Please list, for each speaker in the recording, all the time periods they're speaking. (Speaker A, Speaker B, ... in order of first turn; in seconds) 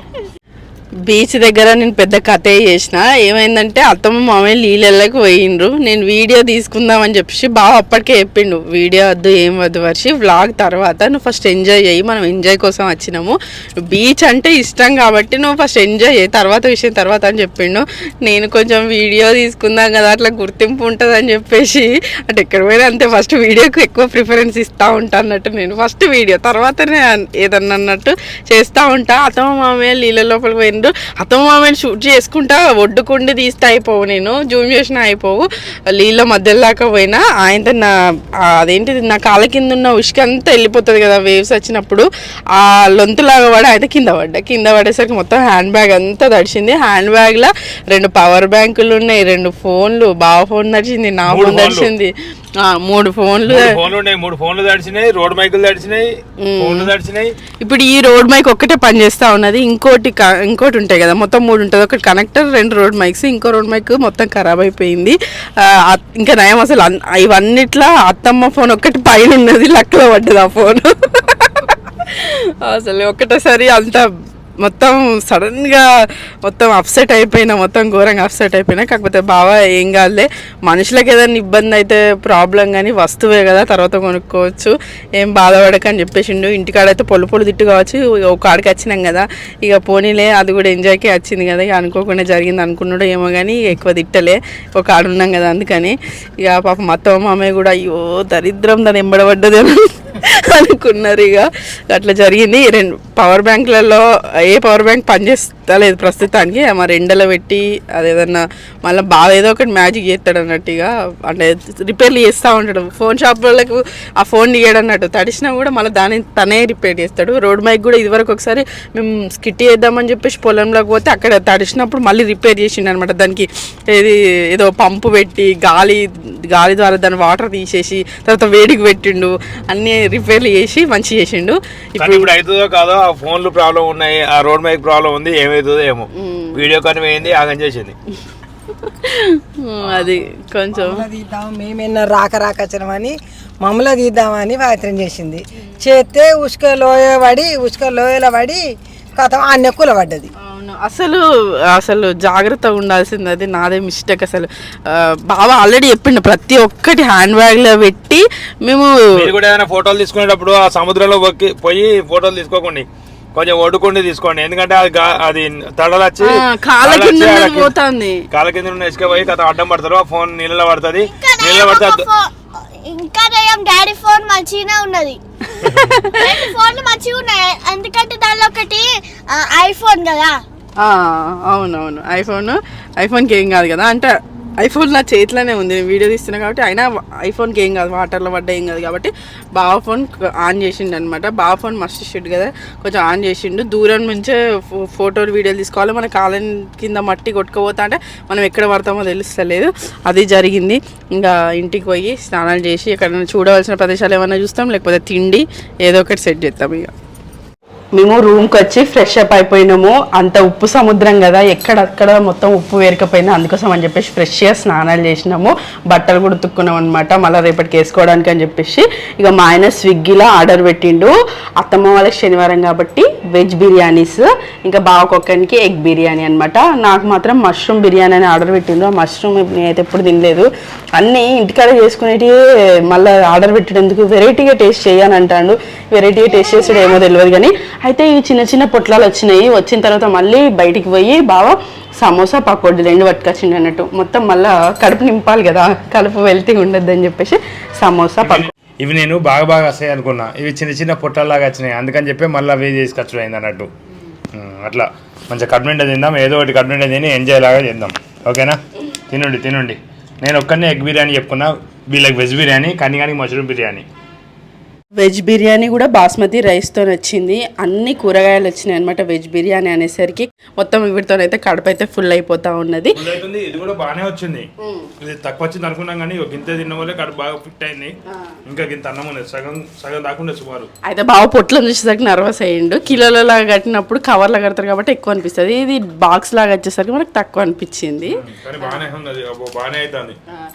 Speaker A: 1.1-37.9, 38.5-53.8, 56.4-56.9, 57.6-74.1, 74.6-75.9, 76.4-132.3, 136.2-136.6, 138.8-141.0, 150.4-159.3, 166.2-168.2, 175.7-176.2, 180.8-206.9, 207.9-248.5, 265.0-273.0, 274.6-274.9, 280.9-288.2
Speaker B: 51.3-51.9, 53.5-57.3, 132.0-137.9, 159.2-167.7, 168.3-172.1, 248.2-253.7, 254.3-263.9, 272.9-274.5, 275.0-277.9, 278.5-280.7, 288.1-290.2
Speaker C: 140.8-148.6, 149.2-150.3
Speaker D: 171.1-172.3, 172.8-175.2, 176.2-180.4